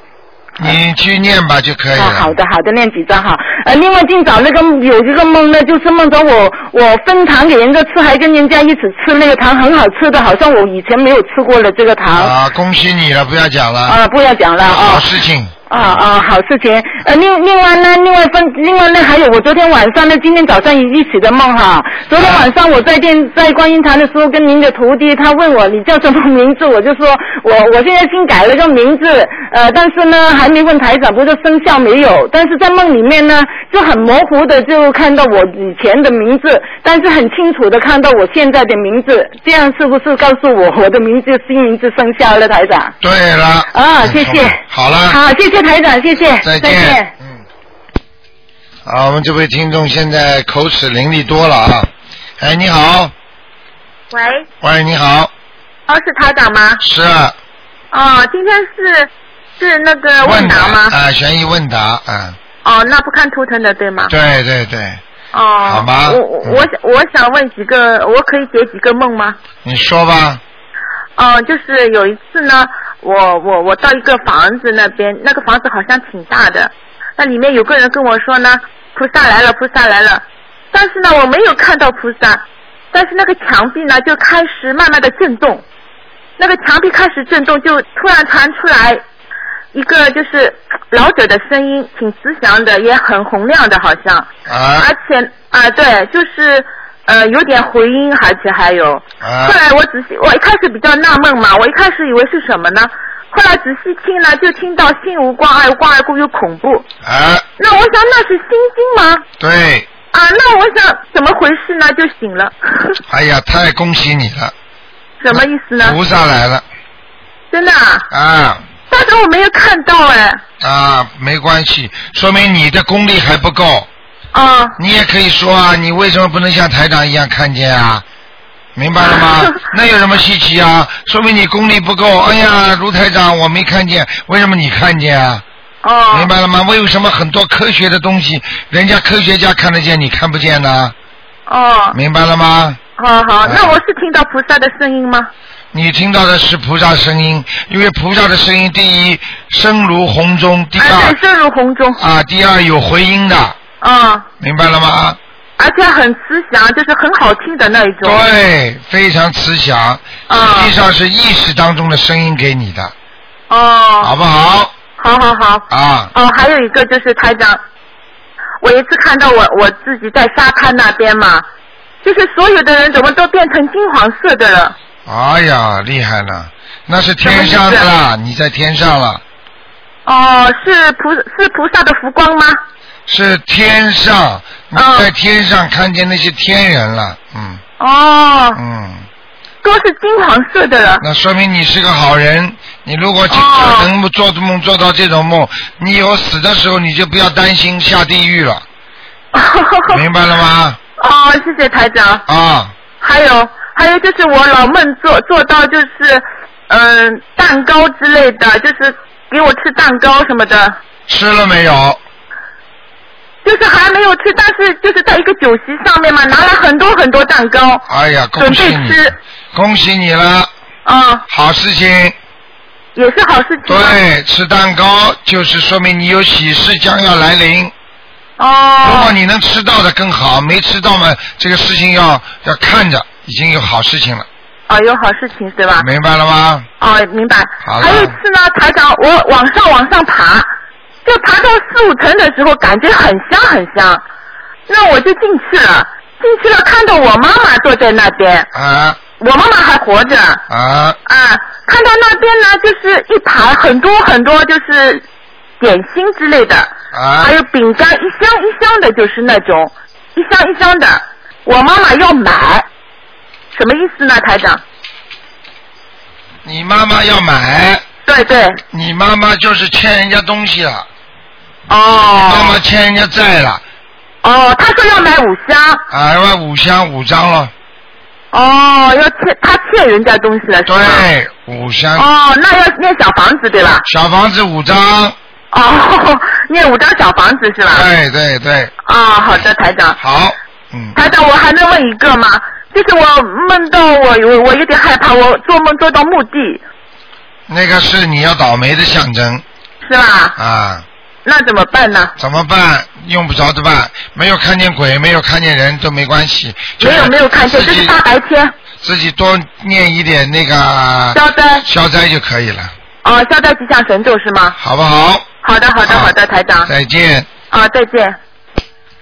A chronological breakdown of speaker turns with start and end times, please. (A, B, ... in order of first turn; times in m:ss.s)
0:00.6-0:02.4 A
0:01.9-0:12.3 B
0:12.1-0:14.0 A
0:13.9-0:15.1 B
0:14.6-0:15.5 A
0:15.7-0:42.9 B
0:22.1-0:22.5 A
0:43.0-0:45.2 A
0:43.7-0:47.1 B
0:46.4-0:47.4 A
0:48.8-0:53.1 A
0:54.1-0:54.4 C
0:54.6-0:55.3 A
0:55.9-0:56.8 C
0:56.8-0:57.4 A
0:57.9-1:01.0 C
1:00.2-1:02.4 A
1:02.6-1:04.1 C
1:04.1-1:05.0 A
1:05.3-1:09.4 C
1:05.6-1:06.6 A
1:09.6-1:10.4 A
1:11.2-1:25.6 C
1:26.4-1:29.0 C
1:29.7-1:34.3 C
1:34.5-1:34.9 A
1:34.8-1:46.9 C
1:39.2-1:39.6 A
1:47.0-1:47.5 A
1:47.6-1:49.2 C
1:49.4-1:49.9 A
1:50.1-1:52.9 C
1:53.1-1:54.5 A
1:55.2-1:56.0 C
1:55.3-1:56.6 A
1:57.5-1:58.1 C
1:58.1-1:58.6 A
1:58.9-2:00.4 C
2:00.6-2:03.9 A
2:04.3-2:04.8 C
2:04.8-2:08.0 A
2:08.8-2:15.4 A
2:15.8-2:16.3 C
2:16.1-2:21.0 A
2:21.5-2:22.0 C
2:21.9-2:22.8 A
2:23.0-2:25.3 C
2:23.4-2:23.8 A
2:25.7-2:31.2 A
2:30.8-2:32.0 C
2:32.0-2:33.6 A
2:33.8-2:34.3 C
2:34.4-2:35.2 A
2:35.6-2:38.2 C
2:38.0-2:42.9 A
2:40.3-2:40.7 C
2:43.5-2:44.1 C
2:44.0-2:44.7 A
2:45.0-2:47.6 C
2:45.7-2:46.1 A
2:48.6-2:51.4 C
2:52.0-2:54.8 C
2:55.1-2:59.2 A
2:57.2-2:57.9 C
3:00.1-3:02.6 C
3:03.1-3:07.6 A
3:04.8-3:05.1 C
3:07.8-3:08.6 C
3:08.6-3:09.1 A
3:09.6-3:11.0 C
3:11.0-3:18.6 A
3:13.3-3:13.9 C
3:19.3-3:20.0 C
3:19.9-3:20.8 A
3:21.0-3:22.2 C
3:22.3-3:22.7 A
3:23.0-3:30.8 C
3:31.1-3:32.0 A
3:33.4-3:37.8 C
3:37.9-3:40.5 A
3:38.4-3:39.2 C
3:40.9-3:41.2 C
3:41.3-3:42.2 A
3:43.0-3:44.0 C
3:43.7-3:47.7 A
3:48.4-3:49.1 C
3:48.8-3:54.3 A
3:54.7-3:55.9 C
3:55.8-3:56.7 A
3:56.8-4:00.5 C
3:57.6-3:58.2 A
4:01.0-4:04.0 C
4:04.7-4:08.5 C
4:08.5-4:09.0 A
4:09.2-4:10.4 C
4:10.5-4:11.0 A
4:11.1-4:15.0 C
4:15.6-4:22.6 C
4:16.9-4:17.3 A
4:23.5-4:24.6 C
4:26.4-4:27.8 A
4:28.1-4:28.6 C
4:28.7-4:30.9 A
4:31.7-4:32.6 C
4:32.2-4:33.6 A
4:34.2-4:35.8 C
4:35.9-4:37.5 A
4:38.3-4:41.1 C
4:40.7-4:42.1 A
4:42.0-4:43.8 C
4:43.8-4:45.2 A
4:45.5-4:47.8 C
4:47.7-4:48.7 A
4:48.8-4:50.0 C
4:50.0-4:51.0 A
4:51.0-4:56.6 C
4:57.5-4:59.4 A
4:59.8-5:00.4 C
5:00.4-5:00.8 A
5:01.2-5:02.1 C
5:02.2-5:08.0 A
5:06.8-5:08.5 C
5:08.8-5:12.7 A
5:11.1-5:11.6 C
5:13.0-5:14.6 C
5:14.6-5:15.3 A
5:15.4-5:16.7 C
5:15.8-5:17.3 A
5:17.5-5:18.2 C